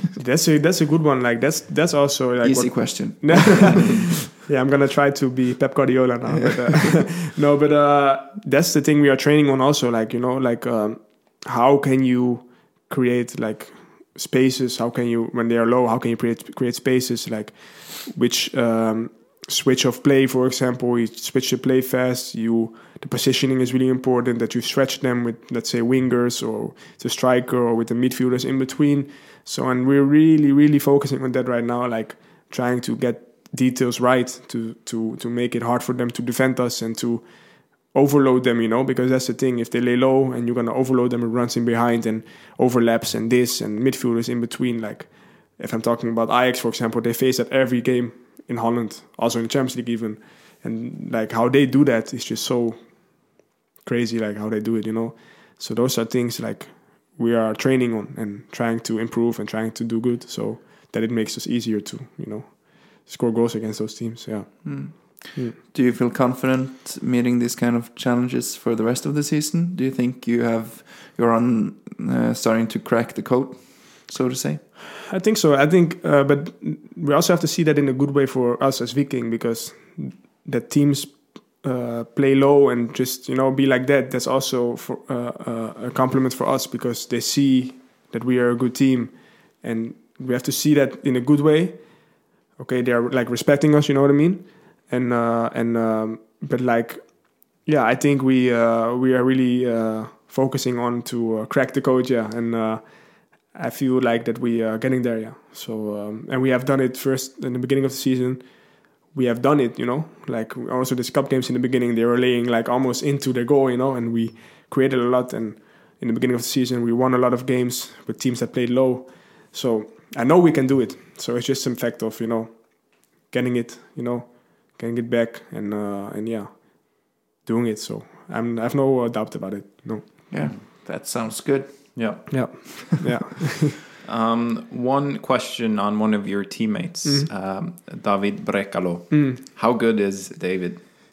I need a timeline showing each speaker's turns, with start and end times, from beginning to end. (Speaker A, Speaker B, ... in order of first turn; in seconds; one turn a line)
Speaker A: 0.2-65.6
Speaker B: 2.4-4.0
Speaker B: 64.6-74.6
Speaker A: 75.1-130.4
Speaker B: 130.3-132.3
Speaker C: 131.9-132.7
Speaker A: 132.3-133.8
Speaker C: 134.0-140.8
Speaker A: 139.1-139.4